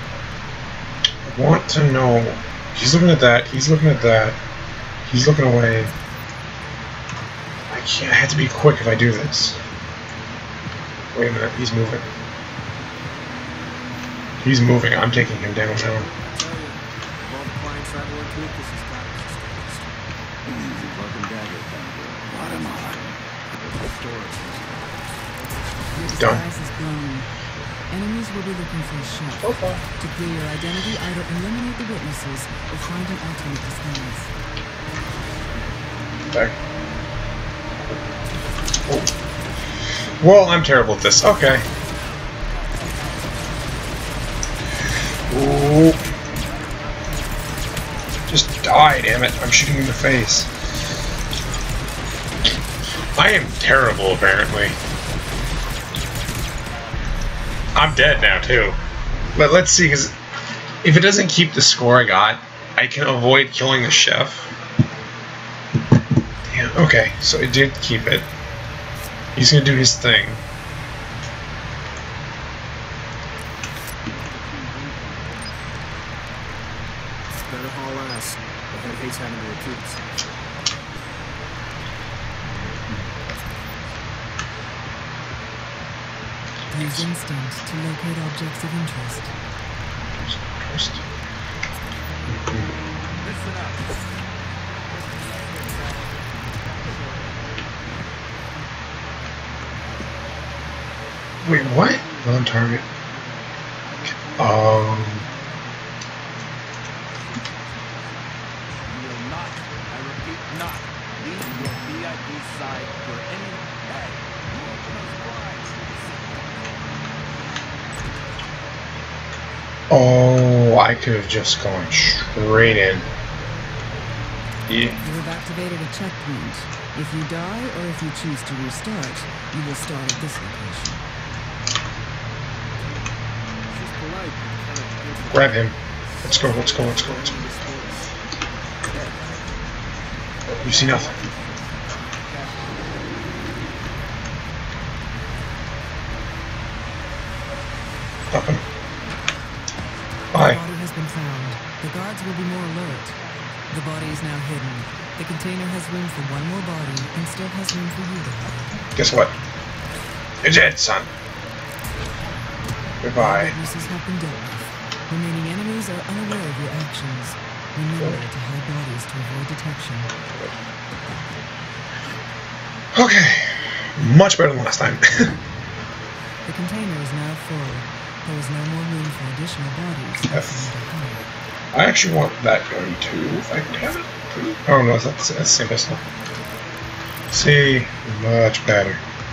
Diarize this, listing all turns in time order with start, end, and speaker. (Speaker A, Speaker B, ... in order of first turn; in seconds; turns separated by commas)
Speaker A: 1.2-4.4, Speaker A: 5.1-5.9, Speaker A: 7.7-9.6, Speaker A: 11.1-12.0, Speaker A: 14.4-16.1, Speaker B: 16.3-19.8, Speaker C: 20.4-25.0, Speaker D: 25.9-27.3, Speaker A: 26.2-26.4, Speaker D: 27.9-34.3, Speaker A: 29.4-29.8, Speaker A: 40.2-41.6, Speaker A: 45.3-46.0, Speaker A: 48.3-50.5, Speaker A: 53.1-54.8, Speaker A: 57.7-58.8, Speaker A: 59.3-60.1, Speaker A: 60.8-64.5, Speaker A: 66.5-68.3, Speaker A: 69.3-70.4, Speaker B: 77.4-80.3, Speaker A: 82.4-83.0, Speaker D: 86.7-89.3, Speaker A: 86.7-87.1, Speaker A: 90.1-91.0, Speaker A: 92.3-92.7, Speaker C: 93.2-93.8, Speaker C: 95.5-95.9, Speaker C: 96.7-97.1, Speaker A: 101.4-102.8, Speaker A: 104.4-105.2, Speaker C: 107.1-108.2, Speaker C: 108.8-116.7, Speaker A: 119.9-123.0, Speaker A: 124.7-125.0, Speaker D: 125.0-131.0, Speaker B: 133.7-135.6, Speaker A: 135.3-137.4, Speaker B: 136.2-138.1, Speaker A: 140.5-141.1, Speaker B: 140.7-141.0, Speaker B: 142.2-142.8, Speaker A: 148.3-148.6, Speaker A: 150.3-150.6, Speaker D: 150.3-153.2, Speaker D: 153.7-158.7, Speaker A: 158.9-159.3, Speaker A: 160.4-161.1, Speaker A: 163.0-163.5, Speaker D: 163.1-170.1, Speaker A: 172.9-175.3, Speaker D: 176.4-181.3, Speaker A: 180.3-180.7, Speaker A: 181.7-186.0, Speaker A: 187.3-189.0